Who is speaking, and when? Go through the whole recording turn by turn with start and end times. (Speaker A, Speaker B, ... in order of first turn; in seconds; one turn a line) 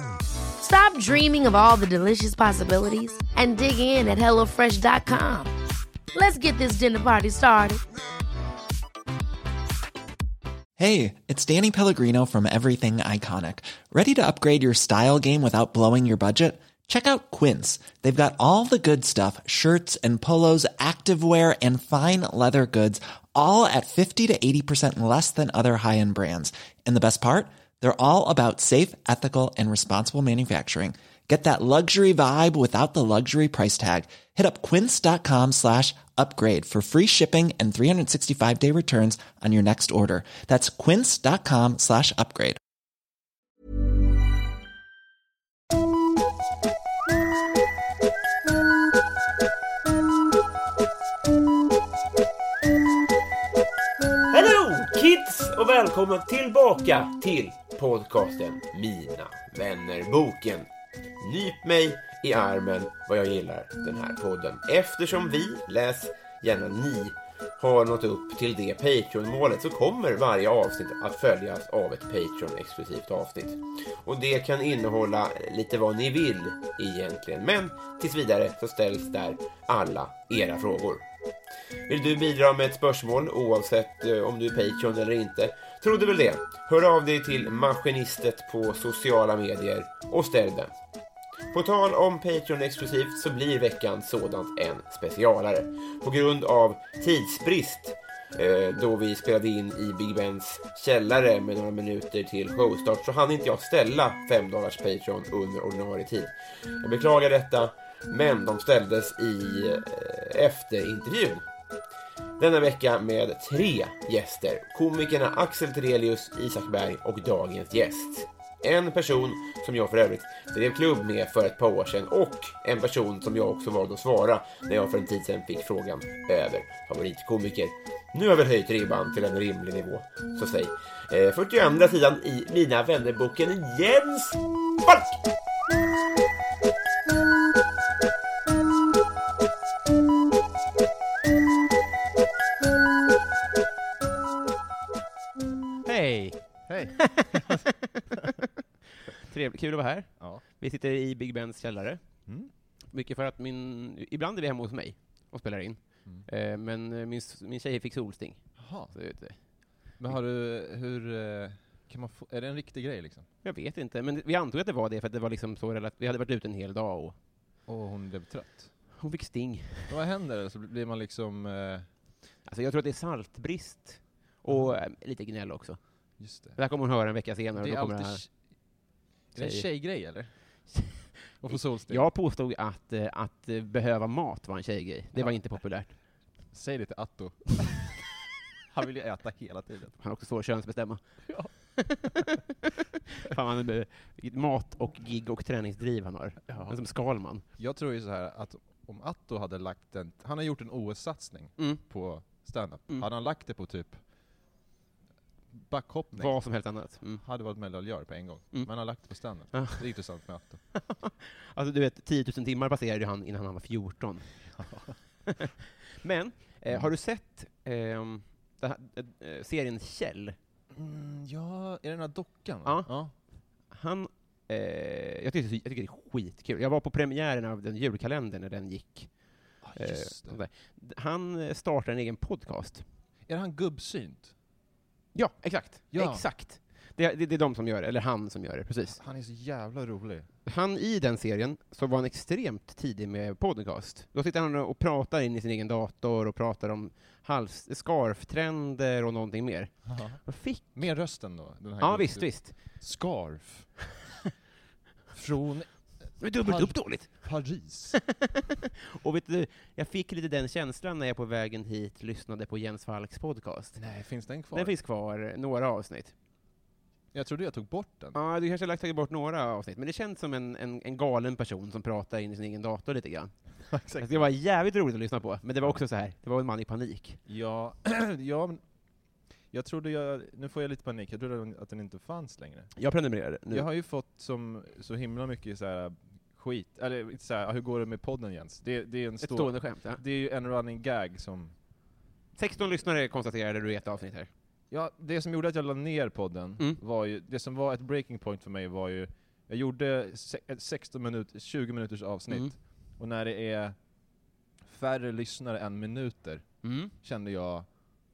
Speaker A: 0.6-5.5
Speaker A: 6.1-7.8
Speaker B: 10.8-42.6
Speaker C: 54.3-60.7
Speaker C: 61.2-81.0
Speaker C: 81.9-90.7
Speaker C: 91.5-111.5
Speaker C: 112.4-135.2
Speaker D: 145.9-146.4
Speaker E: 146.7-148.3
Speaker D: 147.0-147.7
Speaker D: 149.1-152.0
Speaker D: 152.9-159.4
Speaker E: 158.6-158.9
Speaker E: 160.0-163.3
Speaker D: 163.4-167.2
Speaker E: 167.7-168.7
Speaker D: 169.0-170.0
Speaker E: 169.9-171.9
Speaker D: 172.5-175.8
Speaker E: 174.5-174.8
Speaker E: 176.2-176.6
Speaker D: 176.6-178.2
Speaker E: 177.6-178.3
Speaker D: 179.3-179.7
Speaker E: 179.3-180.3
Speaker D: 180.7-185.9
Speaker E: 181.4-182.1
Speaker E: 186.5-188.0
Speaker E: 188.7-189.9
Speaker D: 190.0-197.4
Speaker E: 196.5-196.8
Speaker E: 197.6-204.0
Speaker E: 205.6-206.4
Speaker D: 206.1-207.2
Speaker E: 207.2-210.6
Speaker D: 209.5-209.8
Speaker D: 210.8-214.4
Speaker E: 214.6-215.0
Speaker D: 215.3-220.4
Speaker E: 220.7-223.1
Speaker D: 222.7-223.0
Speaker D: 223.7-232.8
Speaker E: 229.6-230.4
Speaker E: 233.3-234.3
Speaker D: 235.1-239.0
Speaker E: 235.9-236.2
Speaker E: 238.9-240.3
Speaker D: 240.5-250.8
Speaker E: 249.9-250.2
Speaker E: 250.8-253.7
Speaker D: 251.8-252.6
Speaker E: 255.1-258.0
Speaker D: 256.2-257.3
Speaker D: 257.9-263.8
Speaker E: 263.8-264.7
Speaker D: 264.5-266.1
Speaker E: 267.1-268.2
Speaker D: 268.1-273.4
Speaker E: 273.7-274.3
Speaker D: 274.0-277.2
Speaker E: 277.3-278.6
Speaker E: 279.5-282.7
Speaker D: 282.8-283.7
Speaker E: 283.5-291.5
Speaker D: 289.2-290.0
Speaker D: 292.4-294.3
Speaker E: 294.7-303.8
Speaker E: 304.7-307.7
Speaker D: 306.6-306.9